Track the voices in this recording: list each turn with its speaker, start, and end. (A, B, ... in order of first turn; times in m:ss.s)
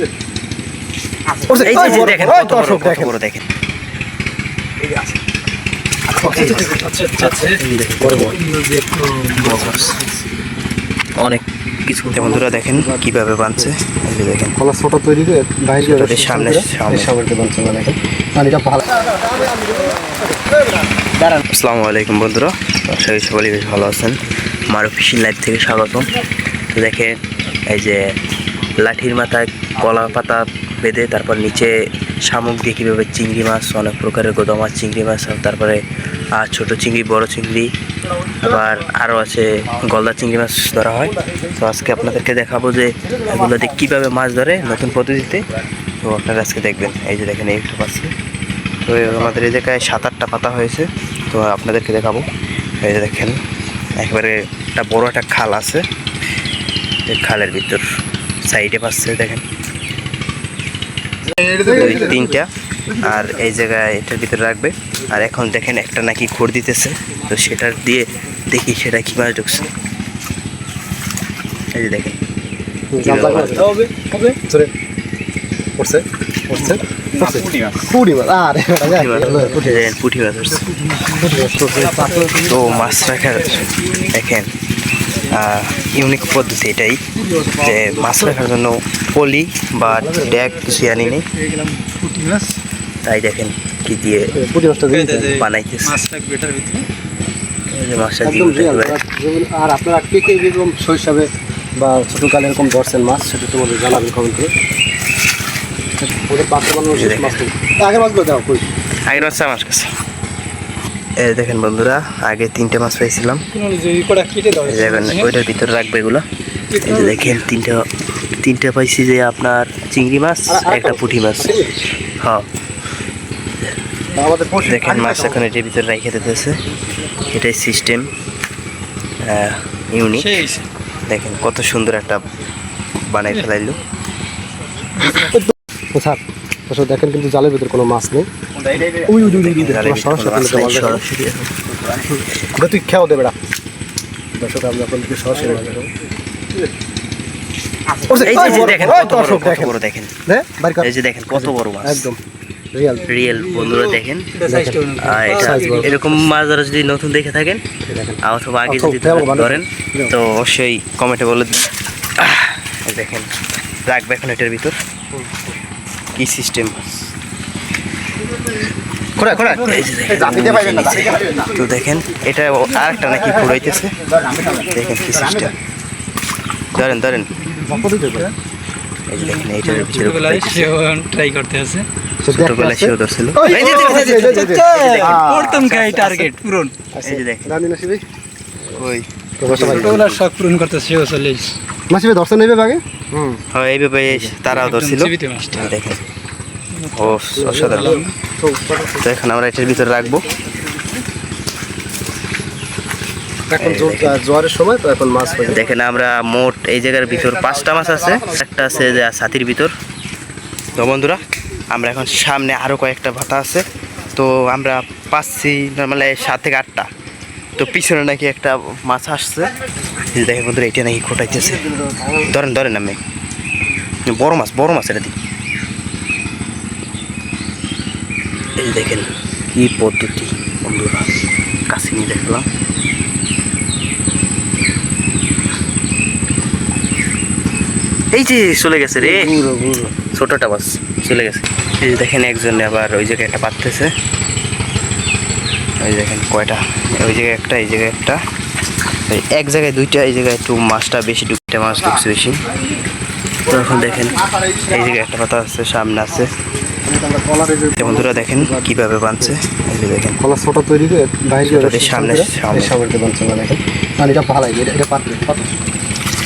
0:01.4-0:03.2 A
0:01.5-0:03.4 B
0:06.2-0:06.7 B
0:06.2-0:07.6 C
0:06.3-0:06.6 A
0:07.4-0:08.4 B
0:08.0-0:08.4 A
0:08.2-0:10.2 C
0:09.4-0:10.0 B
0:11.2-0:14.5 B
0:12.1-0:13.7 A
0:14.6-0:20.6 A
0:15.8-0:17.1 B
0:21.2-0:26.1 B
0:26.7-0:28.1 B
0:28.8-0:37.7 B
0:38.3-0:45.4 B
0:46.0-0:48.1 B
0:48.8-0:52.3 B
0:52.8-0:53.4 B
0:54.0-0:55.8 B
0:57.0-0:57.8 B
0:58.4-0:59.4 B
1:01.3-1:02.3 A
1:01.7-1:09.6 B
1:07.2-1:07.5 A
1:08.1-1:08.4 A
1:11.7-1:12.2 B
1:12.9-1:13.7 A
1:13.0-1:13.6 B
1:13.6-1:14.4 C
1:15.8-1:20.0 A
1:18.8-1:20.7 B
1:20.4-1:24.2 C
1:21.1-1:22.6 A
1:22.5-1:24.5 B
1:25.2-1:26.3 C
1:25.3-1:31.3 B
1:27.3-1:28.2 C
1:29.9-1:30.6 A
1:30.6-1:32.6 C
1:33.0-1:34.3 B
1:34.3-1:35.4 A
1:34.9-1:36.9 C
1:35.3-1:36.0 B
1:37.7-1:39.0 B
1:38.2-1:44.5 A
1:46.1-1:48.7 A
1:46.9-1:47.4 B
1:49.1-1:49.9 B
1:51.2-1:53.4 B
1:53.5-1:55.3 C
1:54.6-1:56.2 B
1:56.7-1:57.5 C
1:56.8-1:57.9 B
1:58.4-2:01.5 B
2:00.5-2:01.8 A
2:02.2-2:02.4 B
2:04.2-2:05.4 A
2:04.6-2:06.6 B
2:07.3-2:08.1 B
2:09.2-2:10.5 B
2:10.1-2:10.6 C
2:11.1-2:12.2 B
2:13.0-2:13.8 B
2:15.0-2:15.4 C
2:15.9-2:18.3 A
2:18.8-2:21.0 A
2:19.2-2:21.5 B
2:22.0-2:23.4 A
2:24.4-2:25.9 A
2:28.0-2:32.2 A
2:28.2-2:30.1 B
2:30.8-2:32.1 B
2:32.7-2:33.2 A
2:33.1-2:34.3 B
2:33.1-2:36.3 C
2:34.5-2:35.9 A
2:35.0-2:37.6 B
2:37.8-2:40.1 A
2:38.2-2:43.3 B
2:43.9-2:44.8 B
2:45.2-2:45.5 A
2:46.2-2:47.1 B
2:49.2-2:49.6 A
2:49.4-2:49.9 C
2:49.4-2:53.9 B
2:54.6-2:55.5 B
2:56.7-2:57.3 B
2:57.3-2:58.3 C
2:57.6-2:58.3 A
2:59.1-3:00.7 B
2:59.2-3:01.9 C
3:02.2-3:06.2 A
3:02.3-3:06.0 B
3:03.5-3:06.7 C
3:06.9-3:08.0 A
3:07.0-3:07.6 B
3:08.6-3:10.0 A
3:08.8-3:10.2 B
3:09.5-3:11.6 C
3:11.9-3:13.4 A
3:13.5-3:16.0 B
3:14.1-3:14.4 A
3:14.5-3:15.7 C
3:16.7-3:18.1 C
3:16.9-3:18.0 B
3:17.4-3:19.0 A
3:19.0-3:20.4 B
3:23.5-3:25.7 A
3:23.6-3:24.2 B
3:25.5-3:29.7 B
3:30.7-3:36.9 B
3:37.6-3:39.6 B
3:40.1-3:41.6 B
3:41.3-3:42.3 A
3:42.2-3:43.0 B
3:44.1-3:45.2 B
3:48.6-3:51.0 B
3:51.7-3:52.5 B
3:58.1-3:59.4 B
3:59.0-3:59.9 A
4:00.1-4:03.9 B
4:05.8-4:08.2 B
4:09.1-4:12.4 B
4:13.5-4:16.3 B
4:16.8-4:19.3 A
4:17.8-4:20.2 B
4:20.2-4:25.6 A
4:21.4-4:22.7 B